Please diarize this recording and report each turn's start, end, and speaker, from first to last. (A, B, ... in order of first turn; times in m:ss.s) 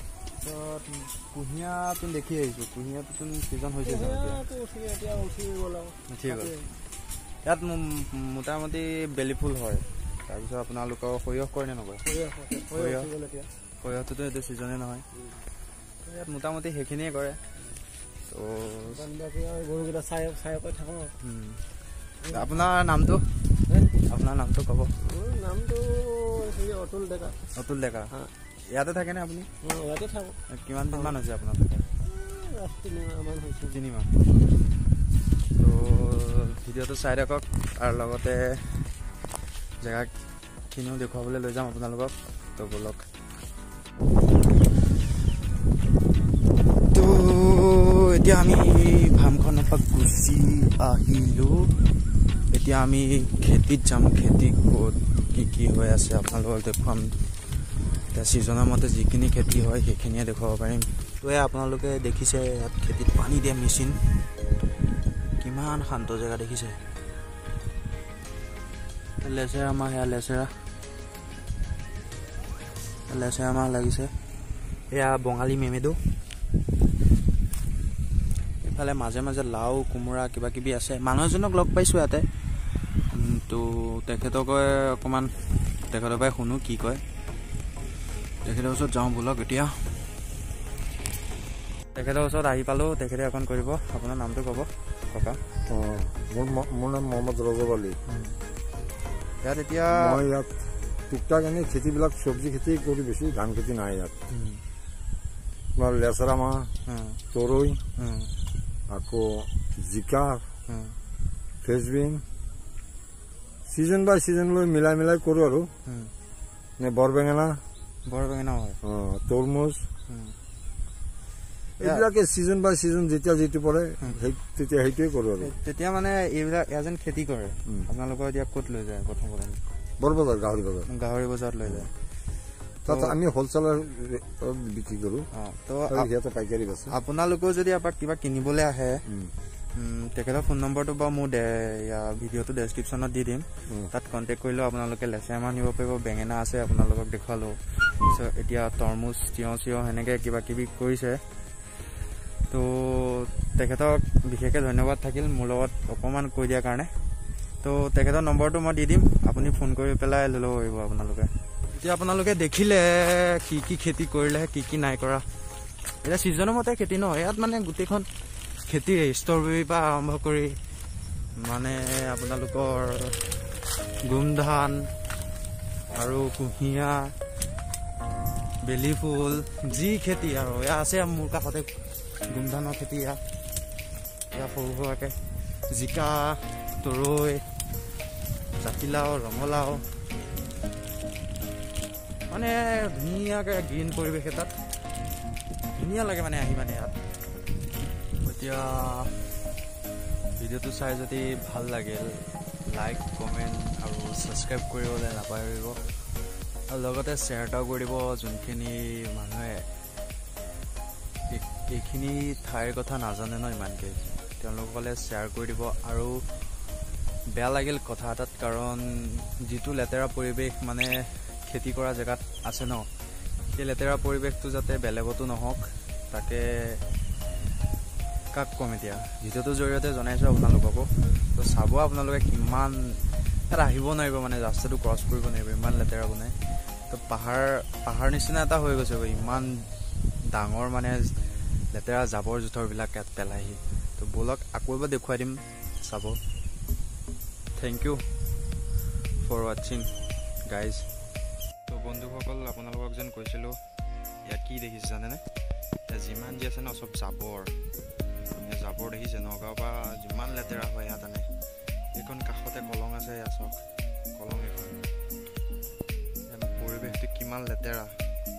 0:00.6-0:04.4 A
0:03.8-0:06.7 B
0:06.1-0:06.5 A
0:07.4-0:12.0 A
0:12.0-0:13.5 B
0:12.7-0:13.1 A
0:13.8-0:15.0 A
0:16.0-0:17.4 A
0:18.3-0:19.0 A
0:18.9-0:21.1 B
0:21.2-0:21.6 A
0:22.2-0:22.5 B
0:22.3-0:23.2 A
0:24.0-0:24.9 A
0:25.0-0:27.4 B
0:27.6-0:28.1 A
0:28.7-0:29.5 A
0:29.6-0:30.4 B
0:30.5-0:31.8 A
0:32.0-0:33.8 B
0:33.7-0:34.1 A
0:35.5-0:38.9 A
0:39.8-0:40.1 A
0:40.7-0:43.0 A
0:46.9-0:51.7 A
0:52.5-0:57.1 A
0:58.1-1:04.0 A
1:05.4-1:06.8 A
1:09.2-1:10.5 A
1:13.1-1:14.1 A
1:14.9-1:16.0 A
1:18.6-1:22.3 A
1:23.1-1:25.3 A
1:25.9-1:27.0 A
1:28.4-1:30.0 A
1:31.9-1:35.4 A
1:35.7-1:38.0 C
1:38.1-1:38.4 A
1:39.4-1:40.2 A
1:39.9-1:40.5 C
1:41.1-1:44.2 C
1:44.3-1:44.6 A
1:45.7-1:46.7 C
1:46.9-1:47.2 A
1:47.3-1:47.8 C
1:48.0-1:48.3 A
1:48.9-1:50.5 C
1:50.7-1:51.0 A
1:51.6-1:52.2 C
1:53.7-1:55.7 C
1:55.8-1:56.1 A
1:56.8-1:57.6 C
1:58.0-1:58.8 A
1:58.8-1:59.9 C
2:00.1-2:00.4 A
2:01.8-2:05.5 C
2:05.4-2:09.6 A
2:10.0-2:10.9 C
2:10.9-2:11.9 A
2:12.8-2:15.3 C
2:12.9-2:13.2 A
2:15.3-2:16.1 A
2:15.9-2:16.9 C
2:16.9-2:19.0 A
2:19.0-2:19.3 C
2:19.8-2:31.2 A
2:32.5-2:36.9 A
2:37.6-2:45.2 A
2:46.0-2:48.1 A
2:48.6-2:50.6 A
2:51.4-2:53.2 A
2:54.0-2:54.9 A
2:55.9-2:57.1 A
2:58.6-3:01.7 A
3:02.3-3:03.2 A
3:04.3-3:07.4 A
3:08.6-3:09.8 A
3:12.3-3:14.5 A
3:15.8-3:17.0 A
3:18.2-3:19.1 A
3:20.4-3:25.8 A
3:26.7-3:29.6 A
3:31.3-3:36.2 A
3:37.3-3:42.9 A
3:43.5-3:46.8 A
3:48.3-3:56.4 A
3:56.9-3:59.7 A
4:00.2-4:01.1 A
4:01.7-4:06.2 A
4:07.6-4:08.0 A
4:09.2-4:09.9 A
4:10.5-4:10.8 A
4:11.6-4:13.6 A
4:14.2-4:15.2 A
4:15.9-4:17.5 A
4:18.3-4:21.3 A
4:21.9-4:23.6 A
4:24.1-4:24.8 A
4:26.3-4:28.0 A